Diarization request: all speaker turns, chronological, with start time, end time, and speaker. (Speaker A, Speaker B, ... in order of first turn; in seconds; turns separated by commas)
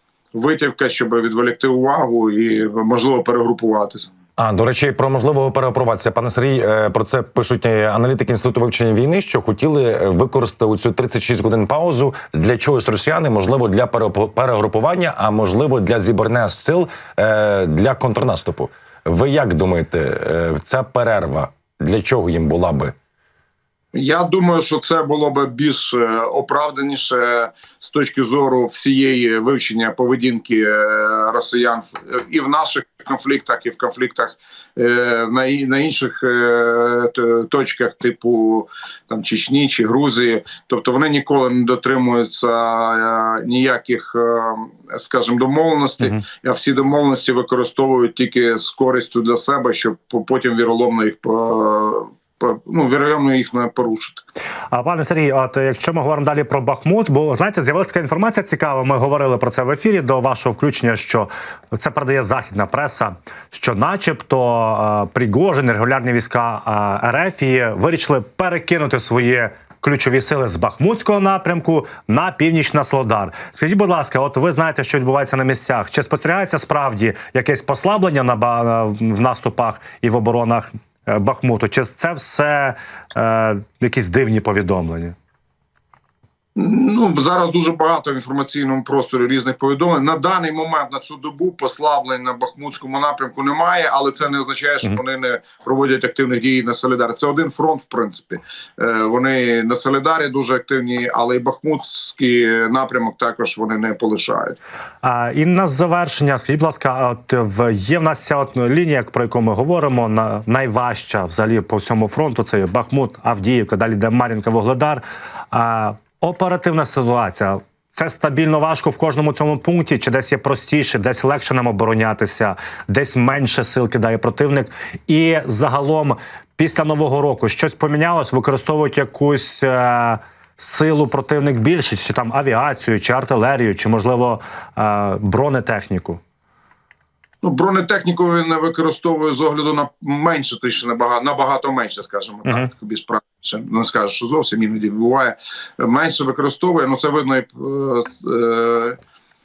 Speaker A: 0.3-4.1, Speaker B: 4.4-22.9, Speaker A: 23.9-54.2, Speaker C: 54.7-85.2, Speaker A: 86.5-104.6, Speaker C: 105.0-136.2, Speaker A: 137.4-149.0